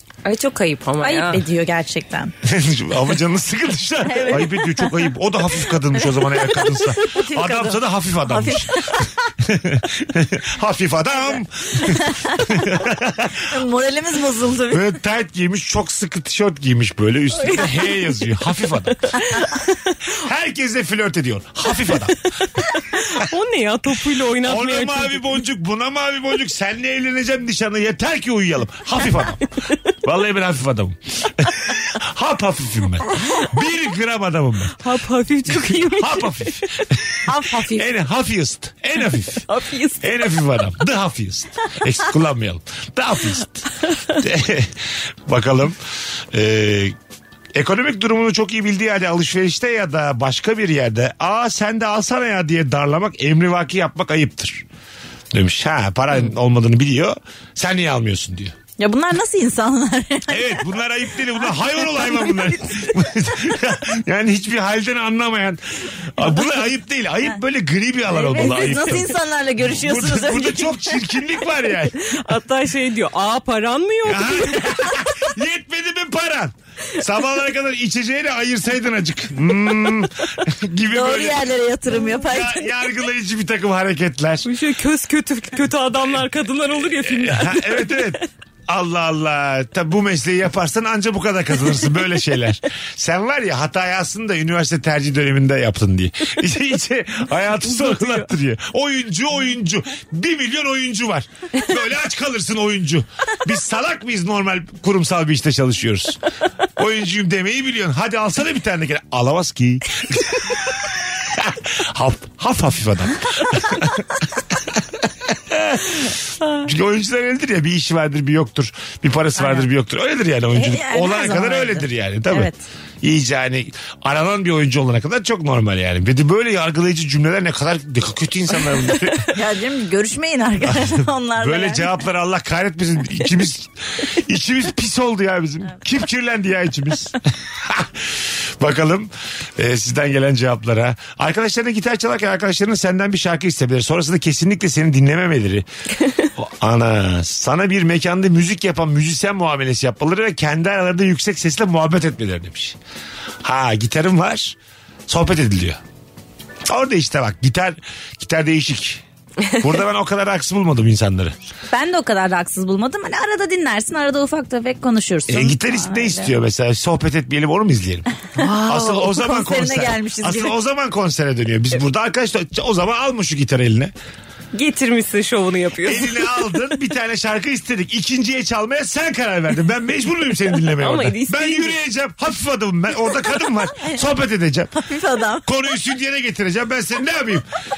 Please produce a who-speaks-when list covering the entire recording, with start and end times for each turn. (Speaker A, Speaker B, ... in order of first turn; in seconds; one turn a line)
Speaker A: 0.2-1.4
Speaker B: 1.0-2.3
Speaker C: 2.4-13.4
Speaker B: 4.0-4.9
Speaker B: 6.5-9.1
Speaker B: 11.8-12.4
Speaker B: 13.5-14.8
Speaker C: 14.7-19.1
Speaker A: 17.4-17.9
Speaker A: 19.1-19.6
Speaker C: 20.1-22.2
Speaker A: 22.6-25.4
Speaker C: 24.4-29.4
Speaker C: 30.0-34.8
Speaker A: 34.8-36.8
Speaker C: 35.5-39.5
Speaker B: 37.3-37.9
Speaker A: 39.5-40.2
Speaker C: 40.0-45.8
Speaker A: 43.9-44.2
Speaker C: 46.3-46.9
Speaker C: 47.5-54.6
Speaker C: 55.3-58.5
Speaker B: 58.8-60.6
Speaker C: 60.3-72.0
Speaker B: 68.1-70.9
Speaker A: 68.4-69.0
Speaker A: 72.0-74.9
Speaker C: 74.0-81.5
Speaker B: 80.9-82.7
Speaker C: 82.0-84.5
Speaker A: 84.4-88.2
Speaker C: 86.9-106.2
Speaker A: 97.7-98.3
Speaker C: 106.8-110.6
Speaker C: 111.2-122.5
Speaker B: 119.4-119.7
Speaker B: 120.5-122.6
Speaker C: 123.0-129.3
Speaker B: 129.3-131.9
Speaker C: 130.7-145.7
Speaker C: 146.3-152.8
Speaker C: 153.4-154.6
Speaker C: 155.1-155.8
Speaker C: 156.7-159.0
Speaker C: 159.6-161.4
Speaker B: 161.7-166.3
Speaker C: 165.3-168.1
Speaker A: 168.4-169.0
Speaker B: 168.4-170.5
Speaker C: 168.7-173.9
Speaker A: 174.5-176.3
Speaker C: 175.8-184.7
Speaker A: 180.7-181.8
Speaker B: 184.7-185.4
Speaker C: 185.4-187.4